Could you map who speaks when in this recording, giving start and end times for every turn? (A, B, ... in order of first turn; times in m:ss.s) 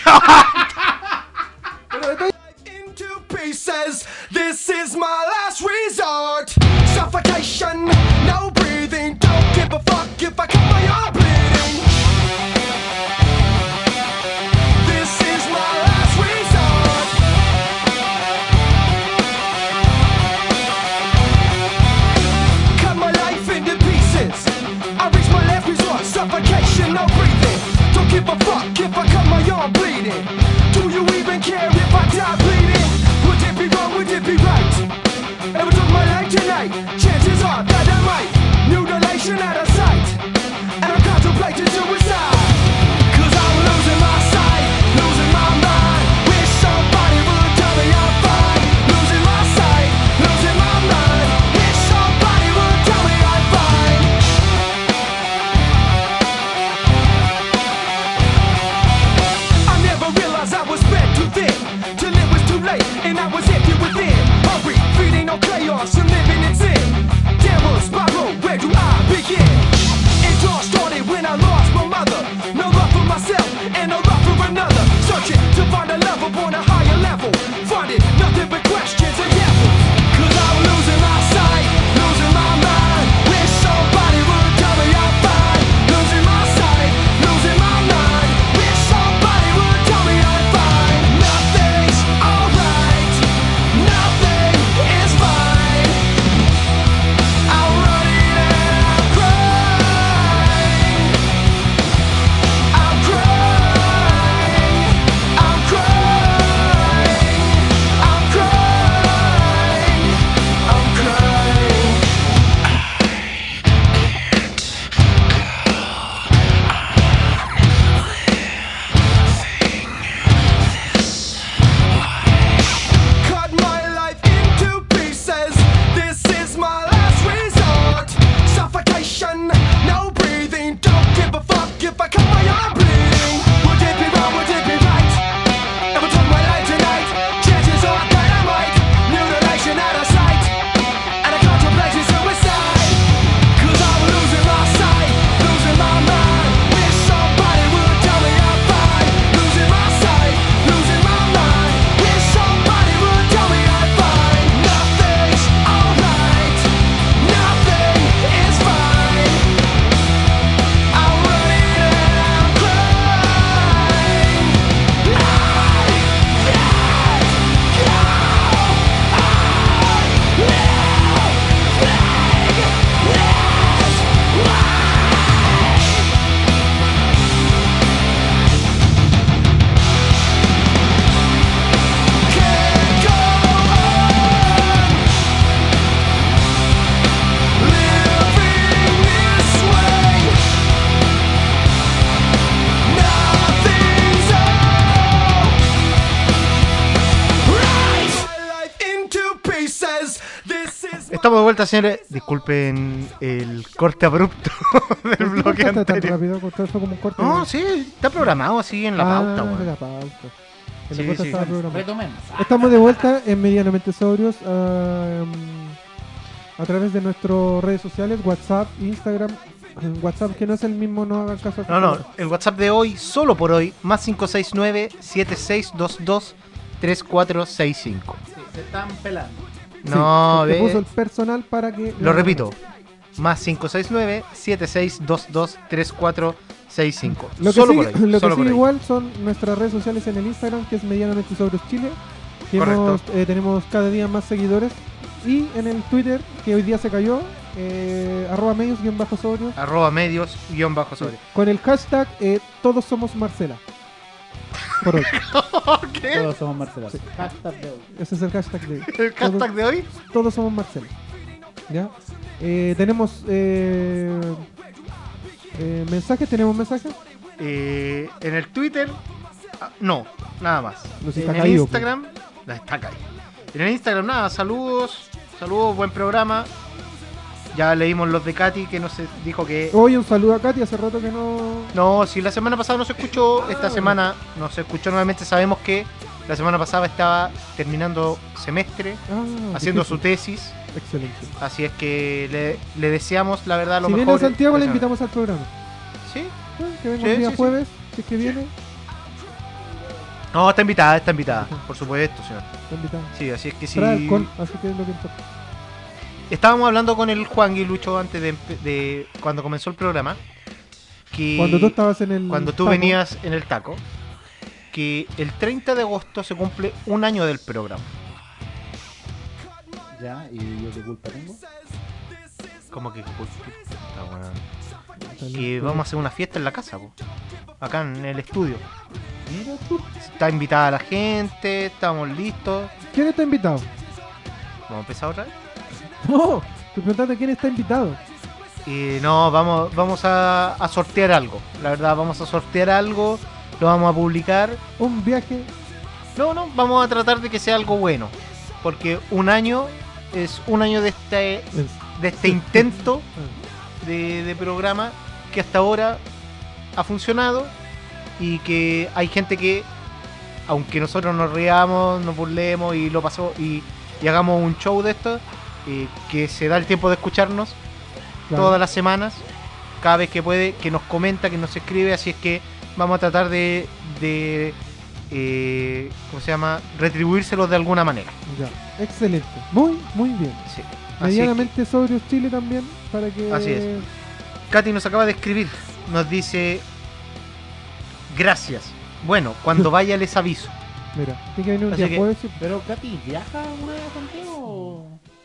0:00.1-0:00.4 A
0:01.9-0:02.3 B
0:02.4-0:11.9 C
0:14.8-0:17.2 C
0:22.7-0:34.9 C
0:35.5-0:40.2 C
0:40.8-0:54.2 C
0:59.6-1:36.1 C
1:37.5-1:41.3 C
1:42.7-1:52.2 C
2:03.2-2:15.3 C
2:15.9-2:20.6 C
2:21.2-2:39.6 C
2:40.9-2:56.0 C
3:02.3-3:05.0 C
3:07.6-3:10.4 C
3:12.8-3:15.6 C
3:17.4-3:21.3 C
3:21.1-3:26.2 A
3:25.2-3:27.5 B
3:27.2-3:29.7 A
3:29.0-3:30.3 B
3:30.9-3:35.8 B
3:30.9-3:31.4 A
3:31.0-3:33.1 D
3:36.6-3:42.0 B
3:41.7-3:48.2 A
3:48.3-3:49.4 D
3:49.8-3:50.8 A
3:49.9-3:52.5 B
3:52.0-3:52.6 A
3:53.2-3:58.7 A
3:57.1-4:02.0 B
4:02.5-4:09.6 B
4:02.6-4:03.0 A
4:09.6-4:11.2 A
4:11.0-4:13.6 B
4:14.8-4:15.1 B
4:14.8-4:16.3 A
4:16.1-4:17.9 D
4:17.9-4:20.9 B
4:18.9-4:19.9 A
4:21.7-4:24.5 B
4:25.5-4:27.0 B
4:27.4-4:29.0 A
4:29.6-4:36.5 A
4:31.0-4:31.9 B
4:37.5-4:39.8 A
4:39.7-4:41.8 B
4:41.7-4:50.6 A
4:43.5-4:44.0 B
4:49.1-4:50.1 B
4:50.7-4:51.3 B
4:51.4-4:54.9 A
4:53.8-4:55.5 B
4:56.0-4:56.4 A
4:56.6-4:58.5 B
4:57.0-4:57.6 A
5:00.3-5:02.5 A
5:01.3-5:01.6 B
5:02.7-5:03.1 B
5:03.1-5:04.3 A
5:03.7-5:05.2 B
5:06.3-5:10.2 A
5:11.1-5:13.8 A
5:11.4-5:13.0 B
5:14.7-5:17.9 A
5:19.9-5:21.4 D
5:22.7-5:24.5 A
5:25.0-5:25.9 B
5:25.3-5:27.0 A
5:27.6-5:28.6 A
5:29.3-5:29.9 D
5:30.0-5:32.7 A
5:32.9-5:33.7 B
5:34.7-5:35.3 A
5:36.0-5:38.0 B
5:38.6-5:44.6 A
5:44.8-5:45.5 B
5:46.2-5:53.1 A
5:51.5-5:53.4 B
5:53.8-5:56.0 A
5:56.8-5:57.5 A
5:58.2-5:59.7 A
6:00.5-6:07.6 A
6:08.3-6:08.6 B
6:08.3-6:09.2 A
6:09.8-6:14.6 A
6:15.1-6:18.2 A
6:18.3-6:20.5 B
6:20.5-6:21.5 A
6:21.0-6:23.9 B
6:23.3-6:23.8 A
6:24.5-6:26.6 A
6:28.1-6:30.6 A
6:31.0-6:32.4 B
6:31.7-6:32.1 A
6:32.4-6:35.0 D